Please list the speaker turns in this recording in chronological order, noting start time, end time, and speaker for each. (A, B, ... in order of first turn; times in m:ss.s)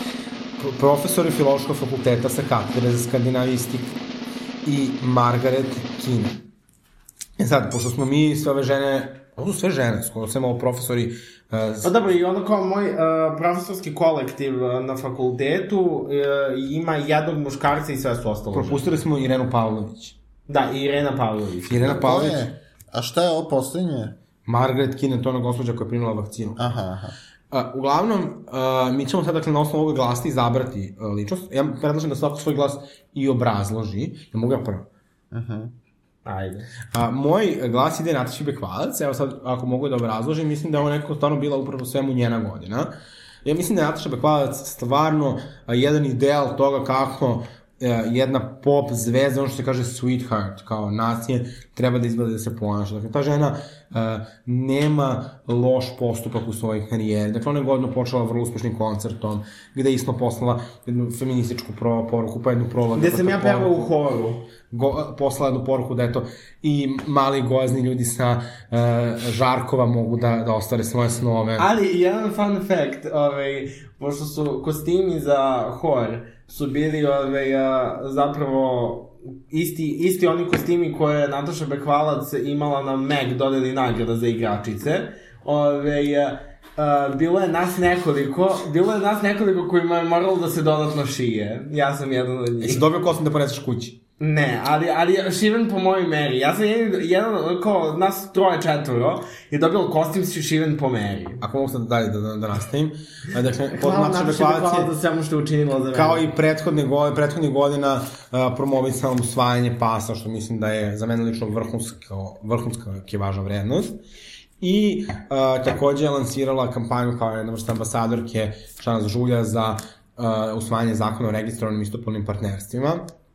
0:00.6-0:04.0 A
0:04.6-0:06.4 A
0:07.4-0:11.9 A
0:11.8-0:18.8 B
0:18.5-0:20.2 A
0:20.5-0:22.1 B
0:21.7-0:22.5 A
0:21.9-0:24.2 C
0:24.4-0:26.7 A
0:26.6-0:27.1 C
0:27.5-0:34.9 A
0:35.3-0:35.7 C
0:36.2-0:36.7 B
0:36.9-0:42.9 A
0:43.4-1:03.9 A
1:02.9-1:04.4 B
1:04.7-1:11.7 A
1:11.6-1:32.8 B
1:32.6-1:34.0 A
1:34.2-1:41.4 B
1:41.4-1:44.9 A
1:43.7-1:46.2 B
1:45.9-1:54.0 A
1:54.6-2:03.1 A